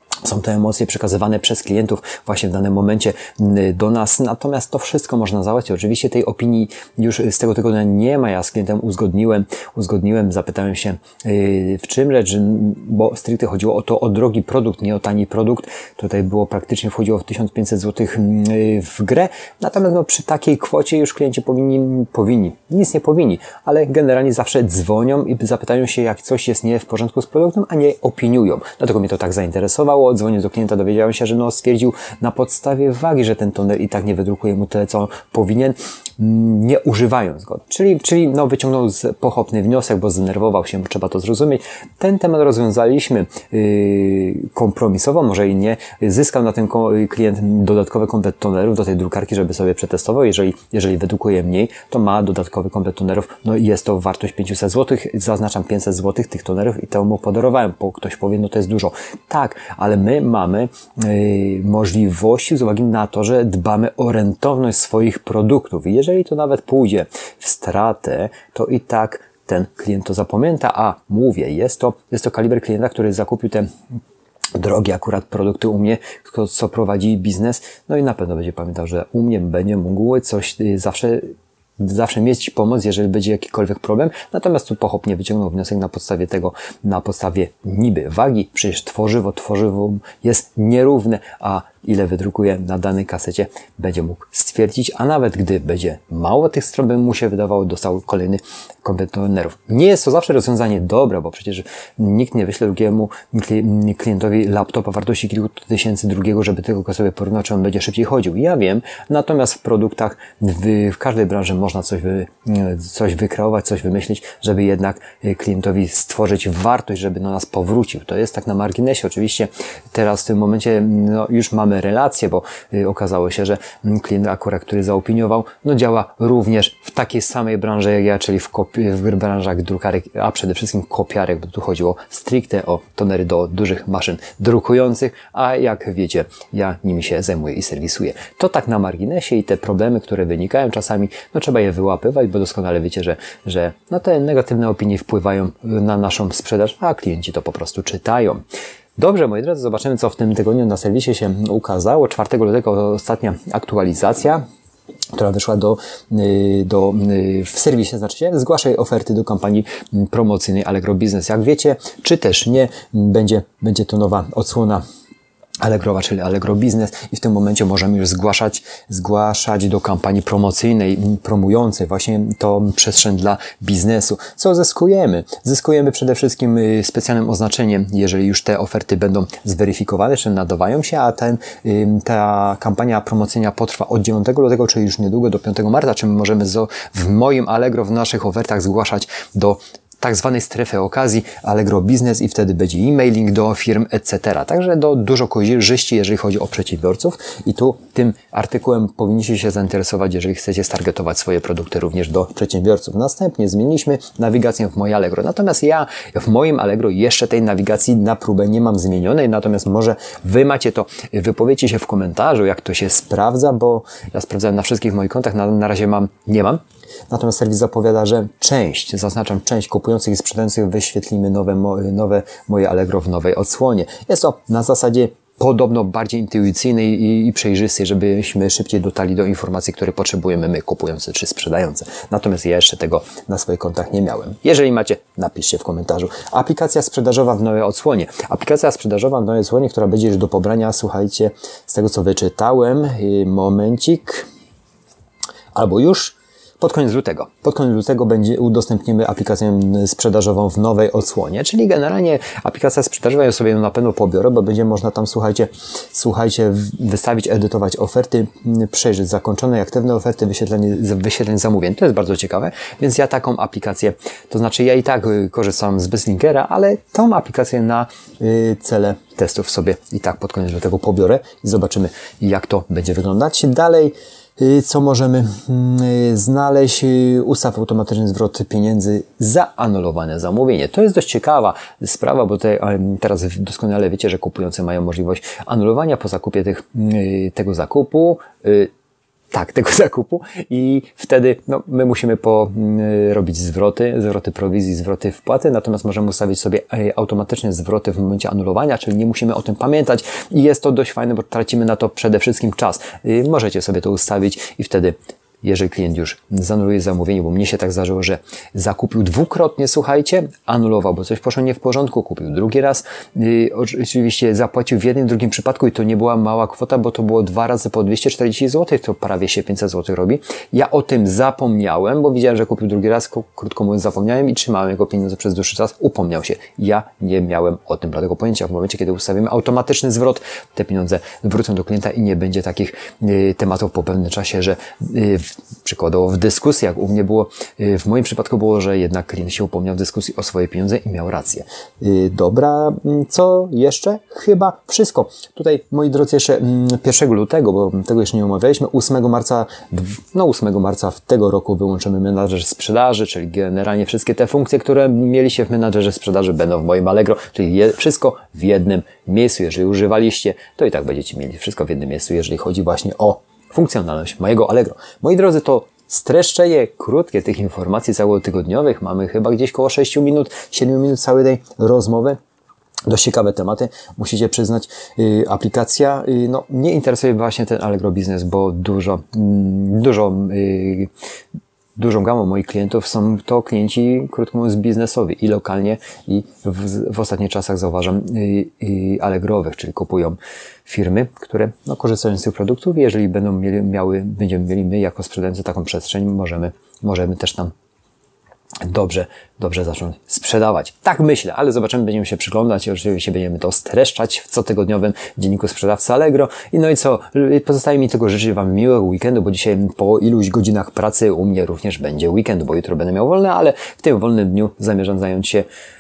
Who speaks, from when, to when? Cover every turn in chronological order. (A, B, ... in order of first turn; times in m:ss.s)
0:00.2-1:13.7 A
1:14.5-2:28.4 A
2:29.0-2:34.4 A
2:35.1-2:44.8 A
2:45.6-4:04.3 A
4:05.5-4:48.7 A
4:49.3-6:12.2 A
6:12.9-6:20.9 A
6:21.8-6:37.5 A
6:38.6-6:55.5 A